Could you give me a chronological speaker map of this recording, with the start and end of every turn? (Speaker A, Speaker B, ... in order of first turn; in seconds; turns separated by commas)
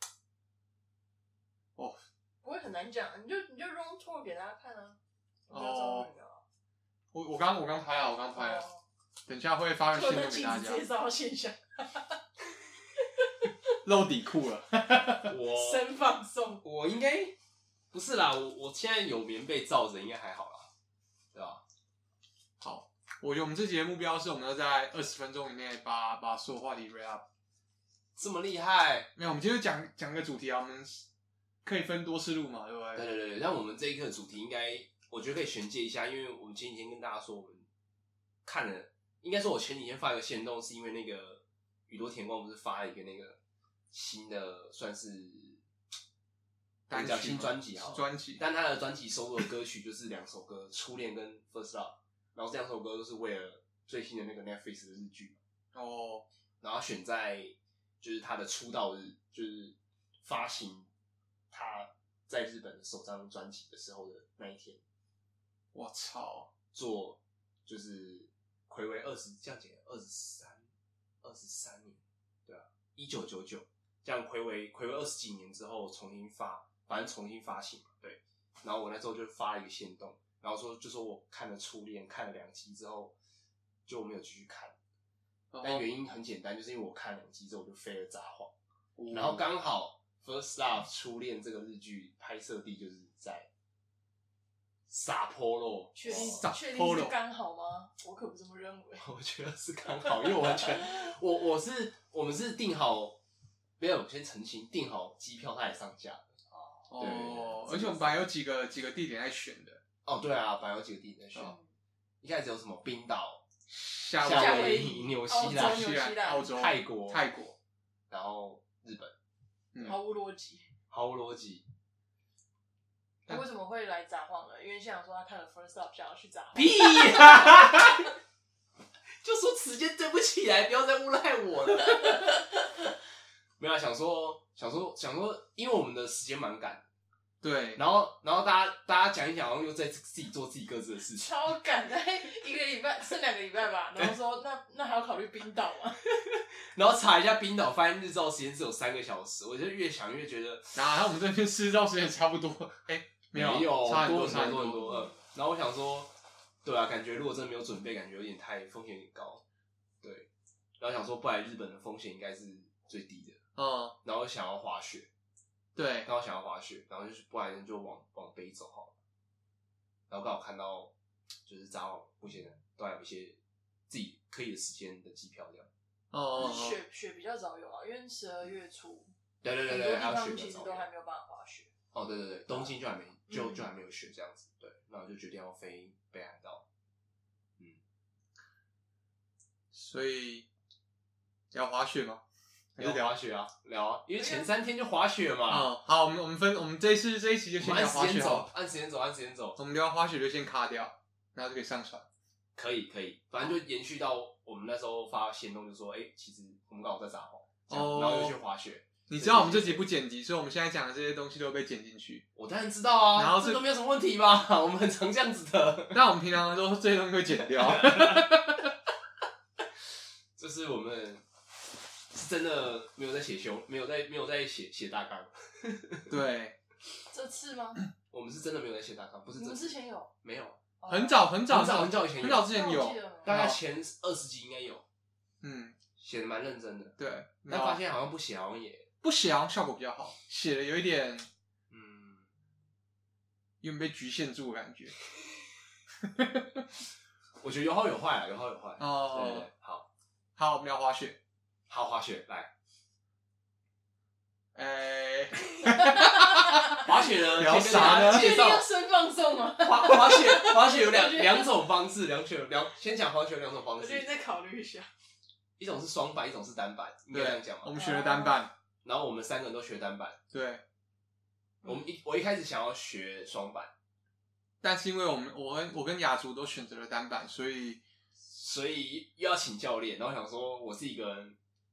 Speaker A: 2.4-6.4, Speaker B: 5.5-6.1, Speaker B: 7.1-8.6, Speaker A: 8.3-8.8, Speaker B: 9.2-10.8, Speaker A: 9.9-12.2, Speaker A: 13.0-13.5, Speaker B: 13.8-15.3, Speaker C: 15.3-15.9, Speaker A: 15.5-16.6, Speaker C: 16.6-17.4, Speaker C: 17.9-20.7, Speaker C: 21.3-21.6, Speaker B: 22.6-27.2, Speaker C: 28.1-29.1, Speaker B: 29.1-31.1, Speaker B: 31.6-33.1, Speaker C: 32.9-37.6, Speaker C: 38.4-43.4, Speaker C: 43.9-45.6, Speaker B: 46.9-48.4, Speaker C: 46.9-55.4, Speaker B: 55.7-56.2, Speaker C: 56.6-60.9, Speaker C: 61.5-64.8, Speaker B: 65.7-66.5, Speaker C: 66.7-70.6, Speaker C: 71.2-83.1, Speaker C: 83.9-84.7, Speaker B: 85.5-85.8, Speaker C: 85.6-88.5, Speaker B: 89.0-89.4, Speaker C: 89.1-93.5, Speaker C: 94.9-96.5, Speaker A: 96.0-99.1, Speaker B: 96.0-97.1, Speaker C: 99.0-103.2, Speaker A: 100.1-100.8, Speaker C: 103.8-106.3, Speaker A: 106.5-106.9, Speaker B: 106.9-109.8, Speaker C: 107.0-108.2, Speaker C: 110.0-111.5, Speaker A: 111.4-111.7, Speaker C: 112.2-113.4, Speaker B: 113.7-114.9, Speaker C: 114.2-115.9, Speaker A: 114.3-116.5, Speaker B: 115.4-117.5, Speaker C: 116.4-117.2, Speaker C: 118.1-119.1, Speaker A: 119.8-120.7, Speaker C: 120.9-121.6, Speaker A: 123.3-127.6, Speaker C: 126.5-128.1, Speaker C: 129.2-132.3, Speaker A: 131.8-132.4, Speaker C: 133.6-136.8, Speaker B: 137.4-137.8, Speaker C: 137.8-141.3, Speaker A: 141.2-146.0, Speaker C: 146.0-150.8, Speaker B: 150.7-154.9, Speaker C: 153.3-156.1, Speaker A: 154.9-155.1, Speaker C: 156.6-159.4, Speaker C: 160.0-160.3, Speaker C: 160.8-163.4, Speaker B: 163.5-163.9, Speaker C: 164.0-165.1, Speaker B: 165.8-166.1, Speaker C: 166.0-168.9, Speaker C: 170.1-170.9, Speaker C: 171.5-175.7, Speaker B: 176.1-176.8, Speaker A: 176.4-179.1, Speaker C: 179.4-180.8, Speaker A: 179.7-181.7, Speaker C: 181.9-186.6, Speaker A: 183.3-183.6, Speaker B: 189.7-190.5, Speaker B: 191.5-192.2, Speaker B: 192.8-193.1, Speaker C: 192.8-195.7, Speaker A: 194.2-194.5, Speaker B: 195.5-198.5, Speaker C: 197.6-199.6, Speaker B: 199.6-202.1, Speaker C: 202.6-209.8, Speaker B: 207.7-208.4, Speaker B: 209.1-212.2, Speaker C: 212.3-216.0, Speaker B: 213.1-213.6, Speaker B: 215.9-218.7, Speaker C: 217.6-218.2, Speaker C: 220.4-221.2, Speaker C: 222.1-226.1, Speaker B: 226.1-226.6, Speaker A: 227.1-227.8, Speaker C: 228.1-230.6, Speaker A: 229.3-230.1, Speaker A: 230.8-231.3, Speaker B: 230.9-233.6, Speaker C: 231.5-232.4, Speaker A: 232.1-233.4, Speaker C: 233.2-234.8, Speaker B: 235.4-235.8, Speaker C: 236.0-236.9, Speaker B: 237.0-237.8, Speaker C: 237.5-238.9, Speaker B: 239.0-241.3, Speaker C: 241.7-242.3, Speaker B: 243.6-244.9, Speaker B: 246.0-246.6, Speaker C: 247.4-249.9, Speaker B: 248.8-249.5, Speaker B: 250.4-251.2, Speaker C: 251.7-252.5, Speaker B: 254.5-256.8, Speaker A: 255.7-256.9, Speaker C: 256.7-258.6, Speaker B: 257.4-258.4, Speaker A: 257.5-261.5, Speaker C: 259.6-264.1, Speaker A: 263.8-264.9, Speaker C: 265.6-267.8, Speaker B: 267.1-268.5, Speaker A: 267.8-268.4, Speaker C: 268.8-270.2, Speaker B: 270.3-270.6, Speaker C: 271.6-273.7, Speaker B: 274.6-277.8, Speaker C: 278.3-281.4